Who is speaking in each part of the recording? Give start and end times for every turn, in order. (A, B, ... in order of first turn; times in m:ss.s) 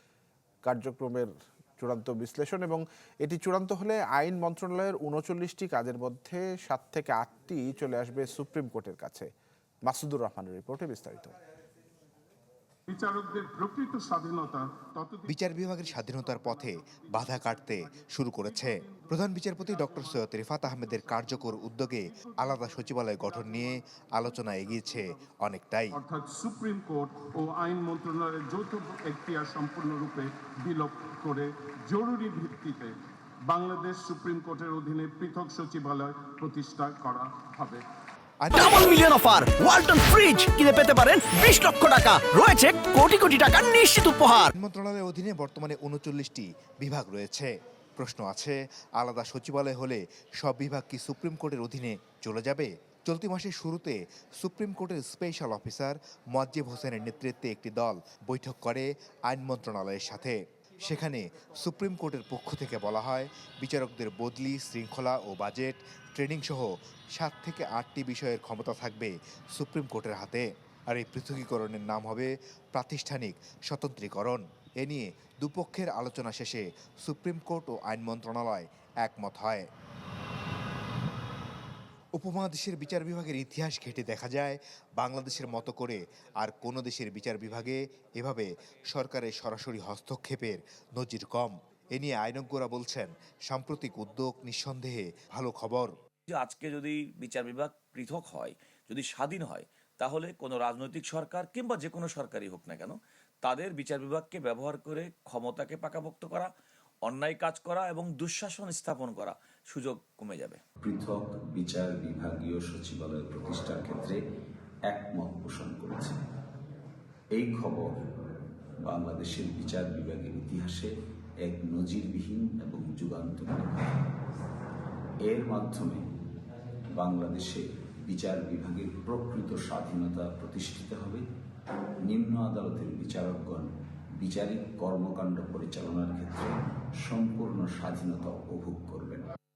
0:00.6-0:09.3 A
0:09.8-0:11.3 A
0:12.9-0:25.2 B
0:15.3-0:26.0 C
0:25.9-0:37.8 B
0:38.4-0:38.9 C
0:38.5-0:44.5 D
0:44.5-1:19.7 C
1:22.2-1:35.9 C
1:36.3-1:46.5 E
1:47.0-1:50.6 E
1:50.8-1:54.2 F
1:54.9-1:56.2 F
1:57.3-1:57.9 F
1:58.8-2:00.9 F
2:01.4-2:04.0 F
2:05.2-2:06.0 F
2:06.9-2:11.2 F
2:12.0-2:19.3 F